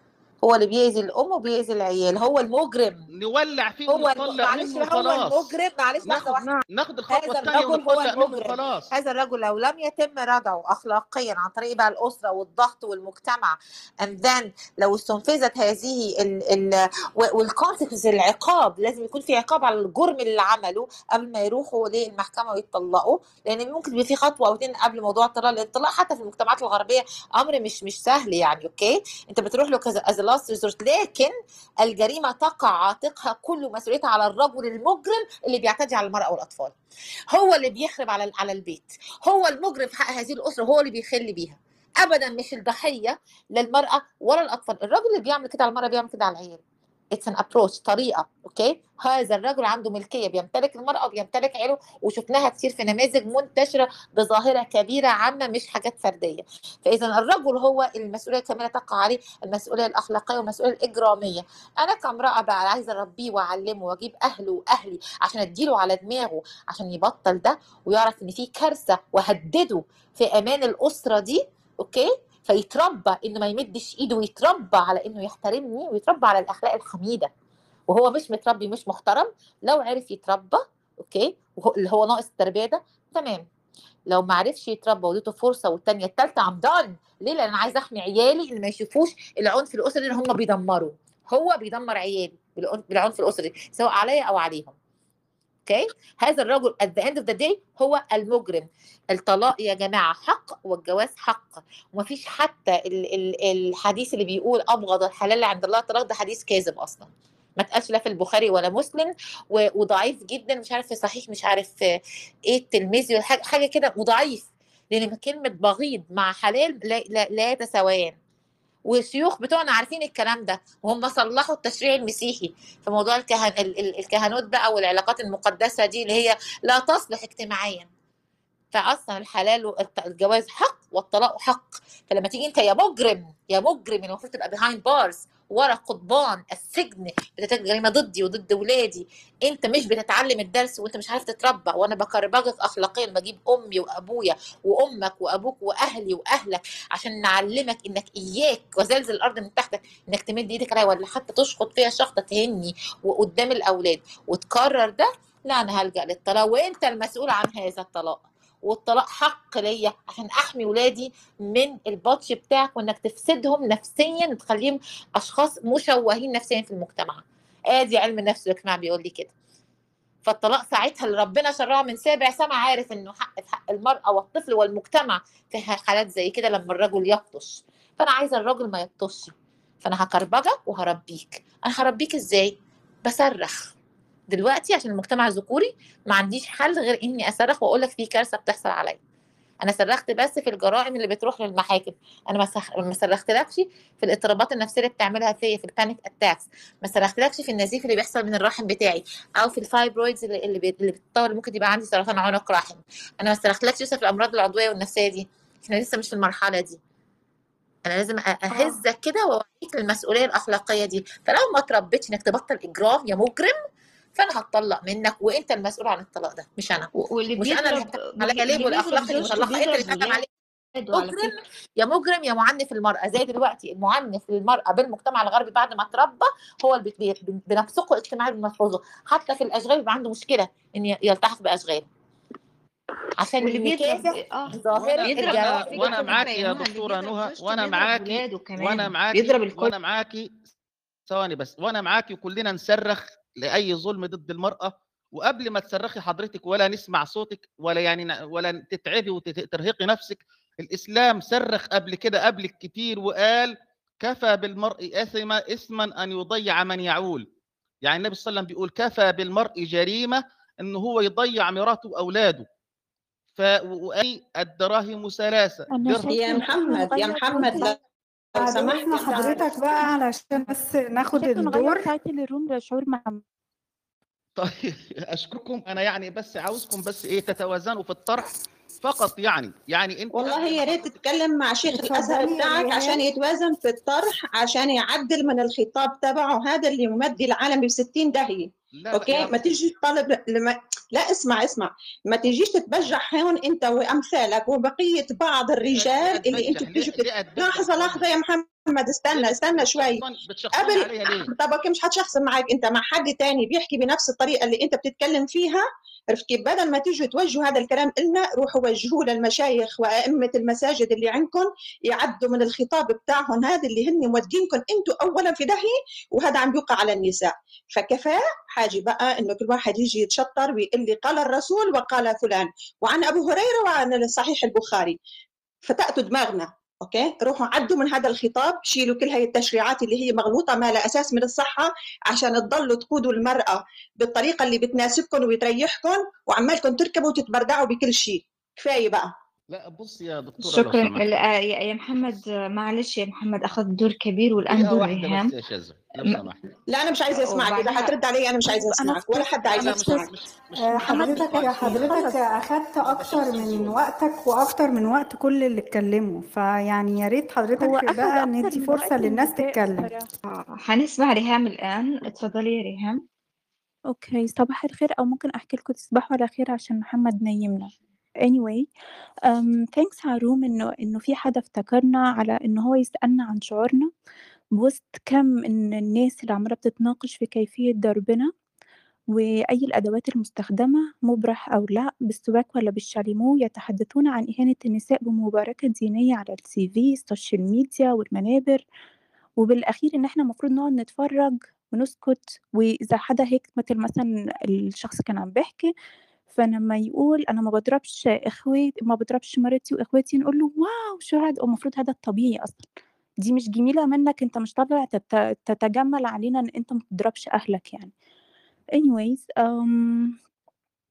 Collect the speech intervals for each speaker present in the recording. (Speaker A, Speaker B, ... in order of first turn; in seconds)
Speaker A: 0.4-3.0, 3.9-6.6, 7.1-31.3, 31.8-36.7, 37.3-46.6, 47.1-77.3, 77.9-83.4, 84.1-94.7, 95.7-111.7, 112.5-118.1, 118.9-127.9, 128.7-169.3, 170.2-179.3, 179.8-182.5, 183.0-183.7, 184.3-189.0, 189.6-206.8, 207.8-213.5, 214.2-220.3, 220.9-231.9, 233.2-236.1
Speaker B: 3.2-5.5, 6.0-8.9, 234.8-240.3, 241.1-257.2, 257.8-262.4, 263.4-266.2, 274.4-281.0, 288.7-289.6, 295.7-298.1, 299.1-301.3, 339.5-341.1, 344.5-346.4, 349.4-352.1, 352.8-353.8
Speaker C: 208.5-208.8, 216.9-221.3, 233.4-239.7, 340.4-345.3, 347.2-347.9, 360.3-363.0
Speaker D: 265.7-267.8, 269.1-270.5, 271.1-273.2, 348.5-349.2, 357.6-360.1, 363.9-367.7, 368.2-368.7, 369.3-373.9, 374.6-378.3, 379.1-388.6, 389.4-395.7, 396.3-402.7, 403.2-407.9, 408.8-410.1
Speaker E: 266.1-267.8, 268.3-269.4, 280.1-300.0, 300.5-325.0, 325.7-339.1, 346.7-350.1
Speaker F: 268.4-271.9, 281.7-283.0, 350.6-359.9